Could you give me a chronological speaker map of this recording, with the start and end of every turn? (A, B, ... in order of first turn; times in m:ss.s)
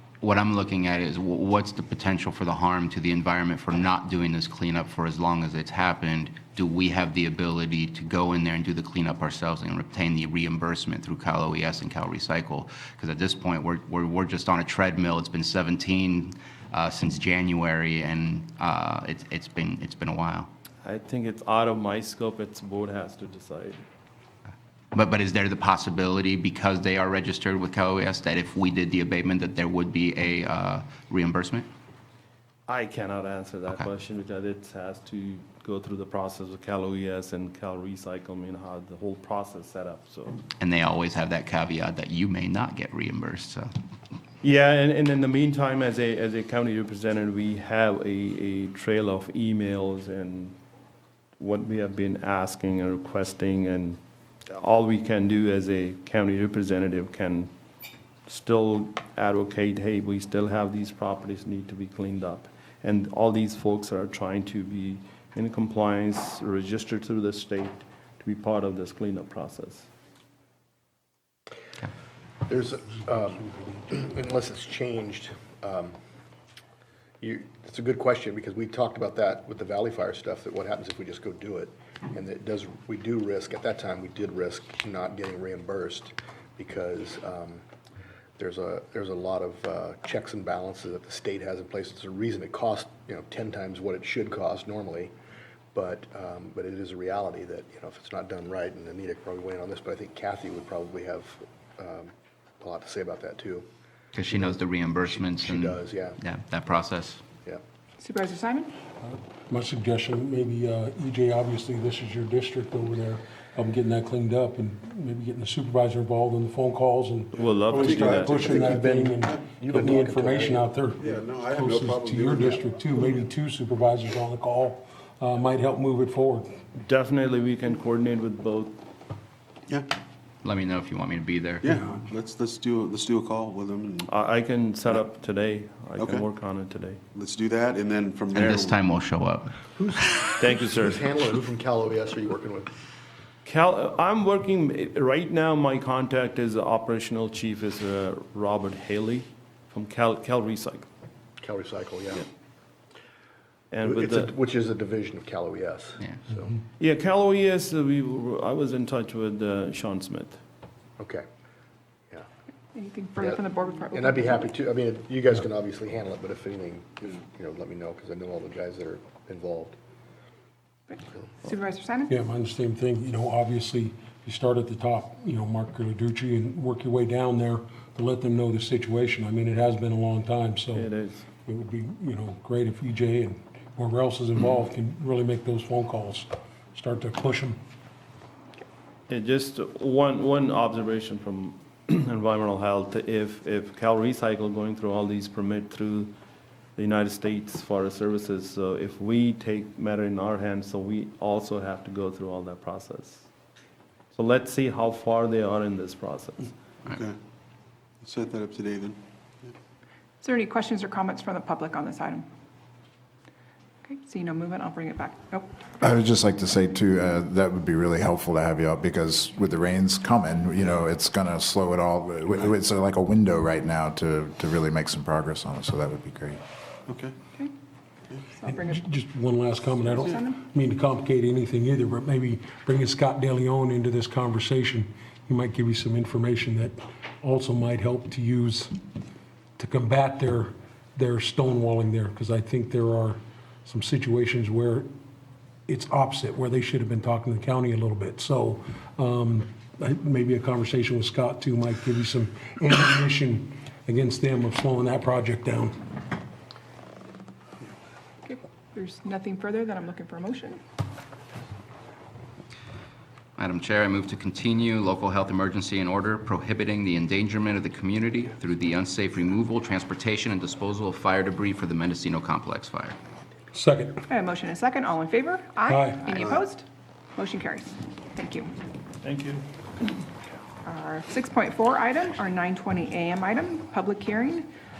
0:00.2-0:20.5 A
0:20.8-0:23.8 B
0:24.9-0:31.7 A
0:32.7-0:40.4 B
0:40.6-0:43.7 A
0:44.4-0:50.6 B
0:51.4-0:57.5 B
0:58.2-1:09.9 B
1:12.4-1:15.9 C
1:17.2-1:27.6 C
1:28.4-1:35.1 C
1:35.7-1:43.6 C
1:44.1-1:47.2 A
1:44.3-1:46.2 C
1:48.0-1:48.8 D
1:49.1-2:06.6 E
1:57.4-1:58.4 B
1:57.4-1:59.4 F
1:58.4-2:00.7 C
2:01.0-2:03.2 F
2:06.8-2:08.8 B
2:10.4-2:11.6 A
2:11.6-2:14.1 F
2:11.7-2:12.0 E
2:14.1-2:17.0 B
2:16.0-2:16.2 F
2:17.1-2:18.8 F
2:18.3-2:19.6 A
2:20.4-2:21.0 B
2:20.5-2:22.7 C
2:23.4-2:30.8 B
2:31.4-2:32.2 C
2:33.7-2:34.3 B
2:33.8-2:36.5 C
2:36.8-2:40.4 B
2:41.0-2:41.2 C
2:42.7-2:44.5 D
2:43.2-2:49.8 C
2:50.9-2:52.2 D
2:52.1-3:00.9 E
3:00.7-3:01.3 B
3:01.4-3:07.6 E
3:09.1-3:16.1 B
3:16.8-3:23.3 B
3:24.1-3:26.5 B
3:26.9-3:27.2 F
3:28.0-3:29.5 F
3:30.2-3:32.2 D
3:33.8-3:35.6 D
3:35.8-3:46.4 G
3:46.9-3:47.1 F
3:48.4-3:48.9 D
3:48.4-3:58.7 E
3:49.7-3:50.4 D
3:59.6-4:04.9 E
4:05.7-4:15.8 E
4:18.2-4:20.6 D
4:23.4-4:33.0 A
4:33.5-4:34.0 E
4:34.1-4:38.5 D
4:35.7-4:36.1 E
4:39.0-4:39.4 B
4:40.6-4:44.5 D